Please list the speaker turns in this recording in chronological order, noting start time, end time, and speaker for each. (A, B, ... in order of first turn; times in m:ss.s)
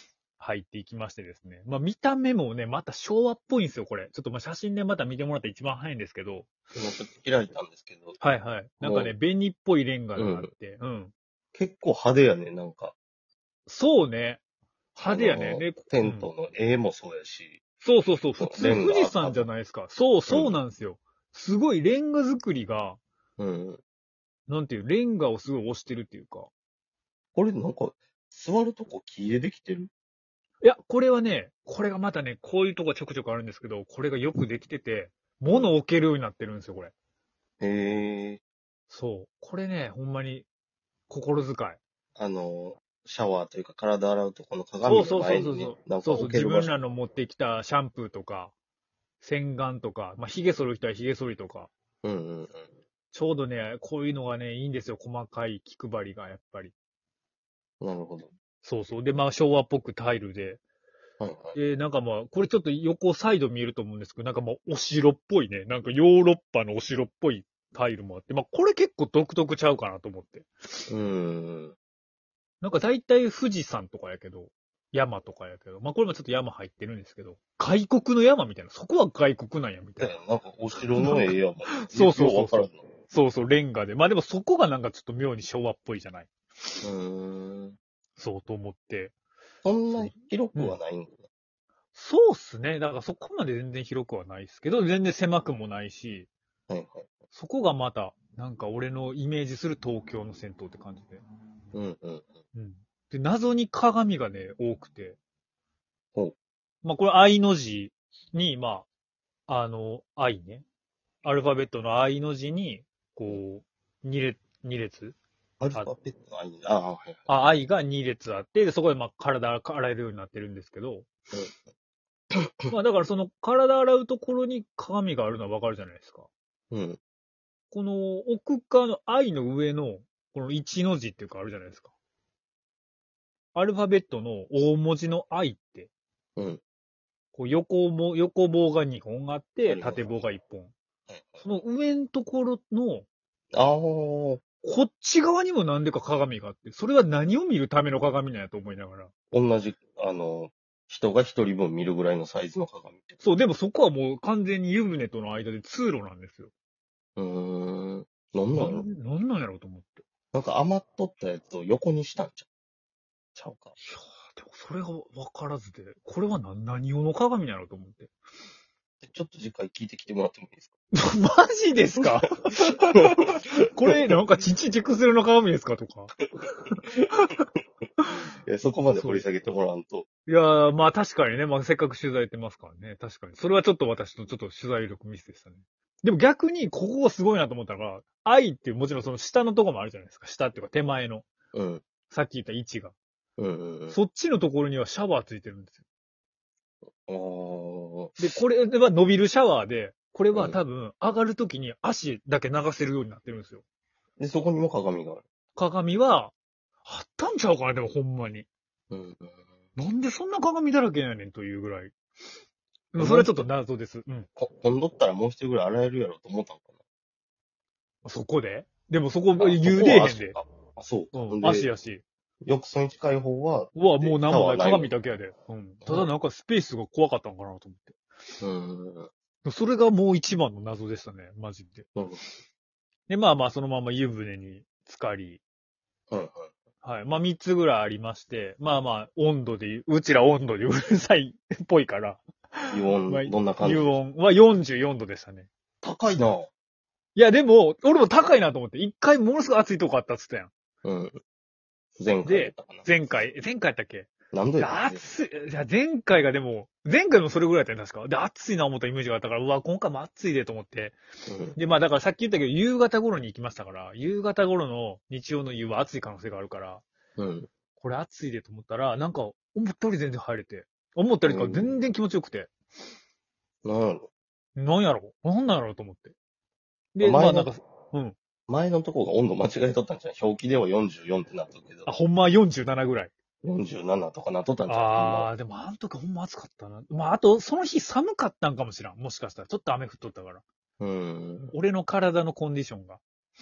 0:00.4-0:06.5 A
0:06.7-0:08.2 B
0:08.2-0:11.1 A
0:08.8-0:09.1 B
0:10.2-0:10.5 B
0:11.5-0:13.0 B
0:13.7-0:14.4 A
0:14.9-0:16.3 A
0:15.0-0:17.6 B
0:17.8-0:23.0 A
0:18.4-0:19.5 B
0:20.3-0:20.6 B
0:23.4-0:23.8 B
0:24.5-0:26.5 A
0:27.3-0:29.9 B
0:30.6-0:36.9 A
0:37.6-0:38.4 B
0:38.9-0:40.4 A
0:41.1-0:41.8 A
0:42.2-0:46.7 B
0:44.8-0:48.5 A
0:49.2-0:51.7 A
0:52.0-0:52.6 B
0:53.1-0:56.7 A
0:57.8-0:58.3 B
0:58.6-1:00.6 A
1:01.2-1:01.6 B
1:01.5-1:10.5 A
1:10.9-1:11.8 B
1:12.6-1:20.1 A
1:20.0-1:22.8 B
1:20.7-1:26.3 A
1:26.8-1:27.8 B
1:28.2-1:29.1 A
1:29.6-1:31.2 B
1:29.9-1:30.8 A
1:31.9-1:36.3 A
1:36.7-1:37.1 B
1:37.3-1:41.2 A
1:41.7-1:42.3 B
1:42.5-1:45.2 A
1:46.8-1:48.9 A
1:49.5-1:50.6 A
1:51.2-1:55.2 A
1:55.6-1:57.4 B
1:57.3-2:01.1 A
2:02.3-2:02.7 B
2:02.7-2:06.3 A
2:06.7-2:07.0 B
2:07.7-2:11.9 A
2:13.5-2:15.9 A
2:17.3-2:20.7 A
2:19.6-2:20.2 B
2:21.1-2:21.4 B
2:21.4-2:23.1 A
2:23.5-2:24.5 B
2:24.5-2:29.1 A
2:29.3-2:33.2 B
2:33.2-2:36.5 A
2:37.2-2:38.8 B
2:38.5-2:40.0 A
2:40.3-2:42.5 B
2:43.3-2:43.7 B
2:43.8-2:48.1 A
2:49.0-2:50.7 B
2:50.9-2:57.4 A
2:52.9-2:53.2 B
2:53.8-2:54.2 B
2:58.1-3:00.1 B
2:58.9-2:59.3 A
3:00.2-3:11.3 A
3:11.5-3:11.8 B
3:12.0-3:12.9 A
3:13.4-3:14.0 B
3:13.9-3:15.8 A
3:17.0-3:18.4 B
3:18.2-3:23.6 A
3:20.3-3:20.6 B
3:24.2-3:25.2 B
3:25.6-3:26.3 A
3:26.8-3:28.5 A
3:28.9-3:29.4 B
3:29.8-3:31.9 A
3:32.9-3:34.3 A
3:33.0-3:33.4 B
3:34.4-3:36.7 B
3:38.0-3:40.4 A
3:39.4-3:41.7 B
3:41.1-3:42.0 A
3:42.4-3:45.0 B
3:43.7-3:48.0 A
3:45.8-3:46.1 B
3:48.4-3:49.1 B
3:49.4-3:51.9 A
3:51.9-3:52.2 B
3:53.1-3:55.4 A
3:56.1-3:56.5 B
3:56.8-4:05.5 A
4:02.7-4:03.9 B
4:05.8-4:06.5 B
4:07.2-4:10.5 A
4:10.8-4:11.2 B
4:12.0-4:13.0 B
4:12.2-4:21.0 A
4:14.3-4:15.0 B
4:21.3-4:21.6 B
4:21.6-4:26.8 A
4:27.2-4:27.5 B
4:27.8-4:32.5 A
4:31.2-4:31.8 B
4:33.6-4:34.0 B
4:34.6-4:36.1 A
4:36.9-4:38.2 A
4:37.0-4:37.5 B
4:38.5-4:41.9 B
4:41.8-4:43.1 A
4:43.4-4:45.3 B
4:44.7-4:50.4 A
4:50.8-4:51.5 B
4:51.5-4:53.0 A